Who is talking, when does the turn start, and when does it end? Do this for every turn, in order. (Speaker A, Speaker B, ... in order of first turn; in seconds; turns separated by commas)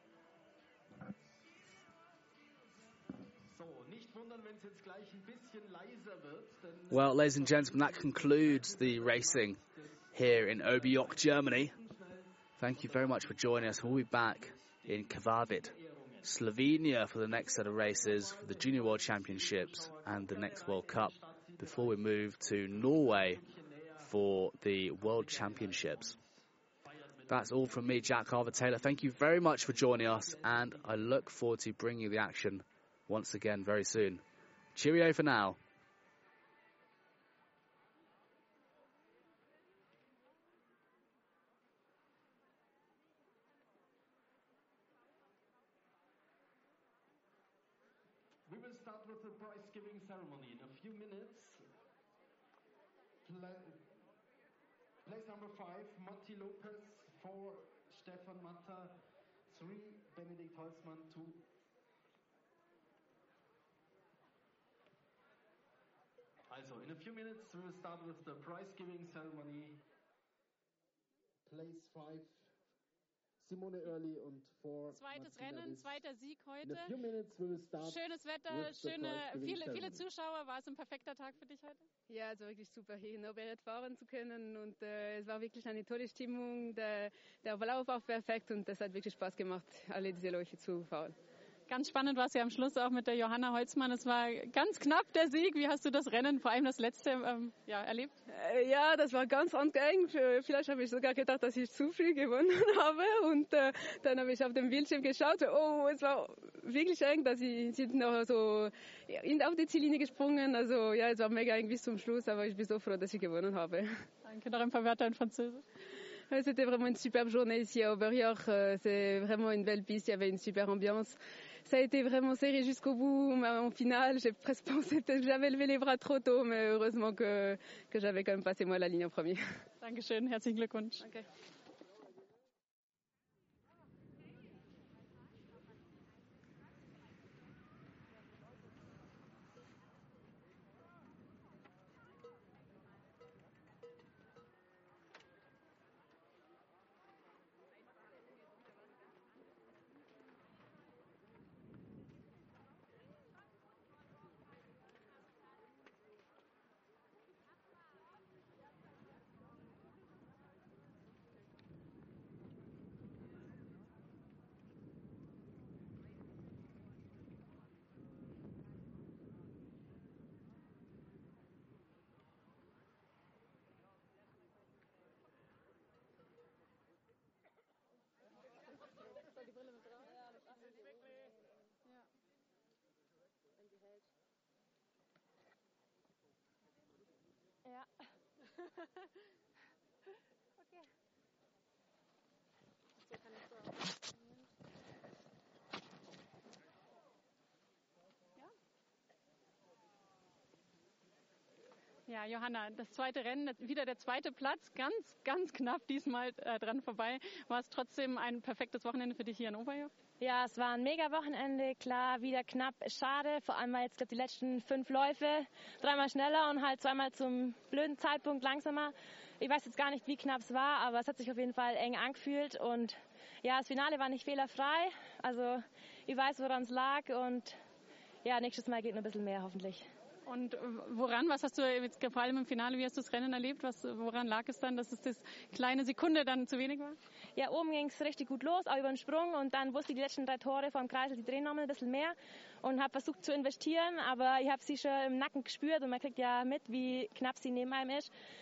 Speaker A: 3.4-16.3, Speaker B: 6.9-9.6, Speaker B: 10.1-11.7, Speaker B: 12.6-23.4, Speaker A: 17.6-22.0, Speaker A: 22.7-24.1, Speaker B: 24.0-26.1, Speaker A: 25.0-26.2, Speaker A: 26.8-28.1, Speaker B: 27.3-34.2, Speaker A: 29.6-30.8, Speaker B: 34.7-35.6, Speaker A: 48.5-51.7, Speaker A: 53.2-53.9, Speaker A: 55.0-59.0, Speaker A: 59.5-61.4, Speaker A: 66.5-69.8, Speaker A: 71.4-72.5, Speaker A: 73.4-76.0, Speaker C: 74.9-76.9, Speaker A: 76.6-80.0, Speaker C: 77.8-81.8, Speaker D: 82.1-91.2, Speaker C: 91.7-98.1, Speaker D: 98.3-114.0, Speaker C: 114.2-115.6, Speaker D: 116.3-129.6, Speaker C: 129.8-131.1, Speaker C: 202.1-209.9, Speaker E: 210.2-227.6, Speaker E: 228.2-229.9, Speaker C: 230.2-237.0, Speaker E: 237.3-248.1